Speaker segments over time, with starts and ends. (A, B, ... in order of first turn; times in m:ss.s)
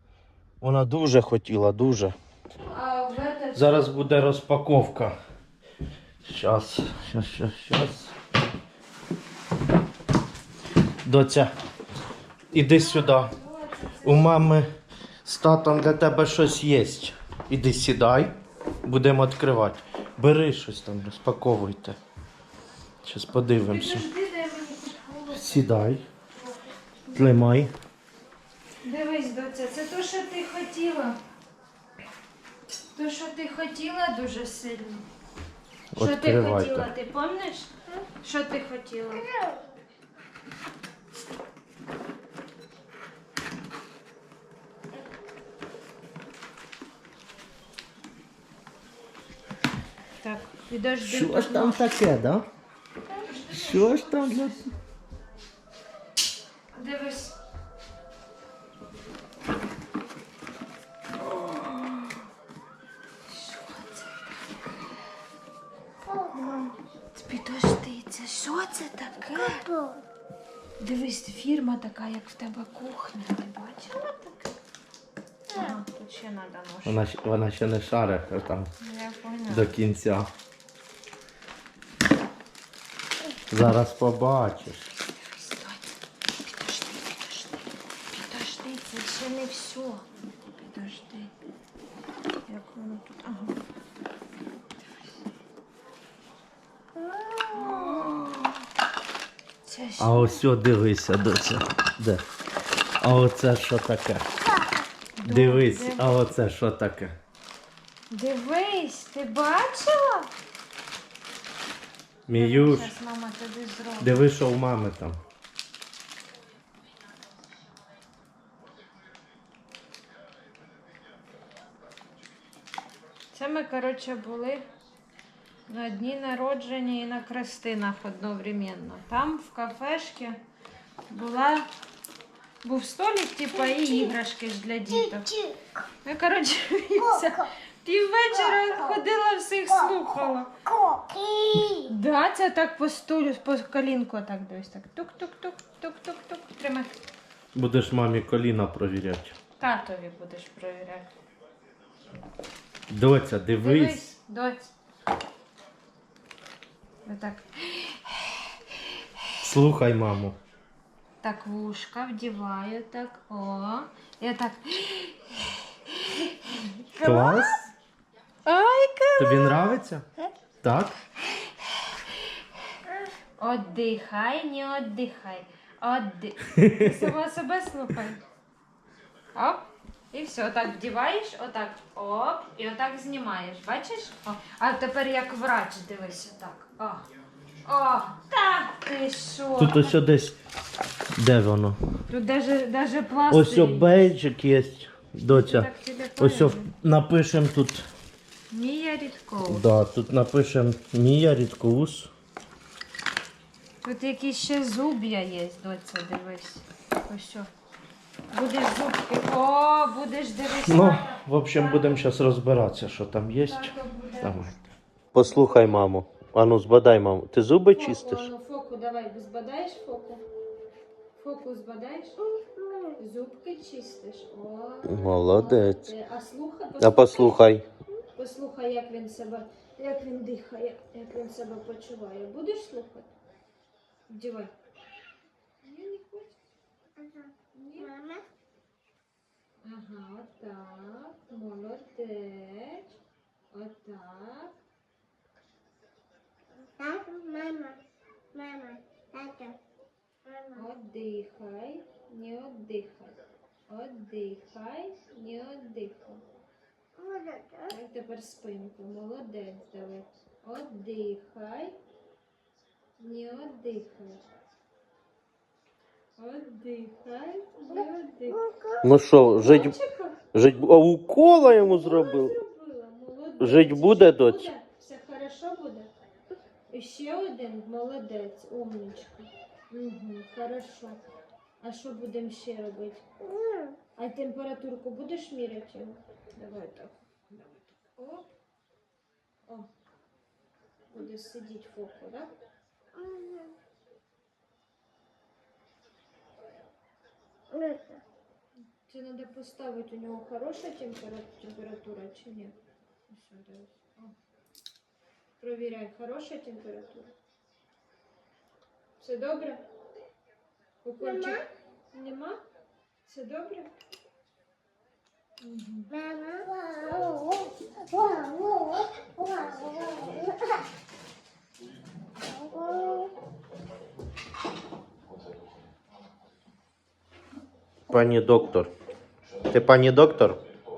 0:00.6-0:02.2 A
0:02.6-0:03.8 B
0:03.6-0:05.2 A
0:06.2-0:08.1 A
0:11.0-0:11.5 A
0:12.5-0:13.4 A
0:12.6-0:14.5 B
0:14.0-0:14.7 A
0:15.2-0:22.0 A
0:23.0-0:24.1 A
0:23.6-0:25.8 B
0:25.3-0:26.0 A
0:26.4-0:27.2 B
0:27.1-0:27.7 A
0:28.8-0:31.2 B
0:32.9-0:35.1 B
0:35.9-0:36.9 A
0:36.0-0:37.7 B
0:38.2-0:39.3 B
0:50.2-0:52.0 B
0:51.0-0:52.5 A
0:53.1-0:54.7 B
0:53.5-0:54.7 A
0:56.7-0:57.4 B
1:01.2-1:02.3 B
1:03.3-1:05.0 B
1:06.2-1:09.7 B
1:10.8-1:14.6 B
1:15.5-1:17.0 B
1:16.8-1:18.7 A
1:18.8-1:19.7 B
1:19.5-1:20.3 A
1:23.5-1:24.9 A
1:25.1-1:31.3 B
1:32.5-1:33.6 B
1:37.5-1:38.6 B
1:39.6-1:40.4 B
1:40.0-1:42.2 A
1:43.0-1:44.2 A
1:45.2-1:46.1 B
1:45.2-1:47.2 A
1:48.1-1:50.3 B
1:52.3-1:52.9 A
1:52.3-1:54.2 B
1:54.0-1:55.2 A
2:03.3-2:04.7 B
2:05.7-2:10.4 B
2:11.1-2:11.7 B
2:12.6-2:20.5 B
2:20.7-2:21.8 C
2:21.7-2:27.0 B
2:27.5-2:29.4 A
2:29.6-2:31.1 B
2:32.9-2:34.0 A
2:33.6-2:34.7 B
2:37.0-2:38.5 B
2:39.4-2:40.4 A
2:41.2-2:47.7 B
2:47.0-2:47.6 A
2:48.4-2:49.7 B
2:49.2-2:50.0 A
2:50.6-2:51.0 A
2:53.4-2:58.2 B
2:56.5-2:57.1 A
2:59.4-3:07.1 B
3:07.6-3:10.0 B
3:09.6-3:10.4 A
3:11.2-3:11.8 A
3:12.1-3:14.0 B
3:13.3-3:17.9 A
3:15.3-3:16.7 B
3:18.5-3:19.7 B
3:19.4-3:22.1 A
3:23.8-3:27.5 B
3:28.3-3:32.0 B
3:30.6-3:34.6 A
3:33.5-3:34.5 B
3:35.1-3:38.3 A
3:35.2-3:35.8 B
3:37.7-3:40.2 B
3:41.2-3:42.4 B
3:42.4-3:42.9 C
3:43.0-3:47.4 B
3:44.9-3:45.9 A
3:46.8-3:47.7 A
3:48.2-3:53.1 B
3:54.1-3:54.5 B
3:55.6-3:56.3 B
3:57.0-3:57.3 C
3:57.5-3:58.0 B
3:58.0-3:58.2 C
3:59.6-4:03.0 B
4:03.5-4:04.5 B
4:06.7-4:07.8 C
4:08.3-4:09.6 C
4:10.5-4:16.2 B
4:17.0-4:17.6 C
4:17.6-4:21.8 B
4:23.0-4:24.3 B
4:26.2-4:28.5 B
4:28.5-4:28.8 C
4:28.8-4:29.8 A
4:29.3-4:30.3 B
4:30.3-4:32.4 A
4:31.4-4:35.9 B
4:33.4-4:34.5 A
4:36.7-4:41.0 B
4:41.6-4:43.1 B
4:44.0-4:48.3 B
4:50.9-4:52.3 B
4:53.0-4:53.5 C
4:57.5-4:58.0 C
4:58.8-5:02.6 B
5:03.1-5:04.2 B
5:05.4-5:07.1 B
5:09.0-5:09.6 B
5:10.8-5:12.4 B
5:13.1-5:13.7 B
5:15.4-5:16.0 B
5:16.0-5:20.4 C
5:22.6-5:23.1 C
5:27.9-5:28.7 A
5:29.5-5:30.4 A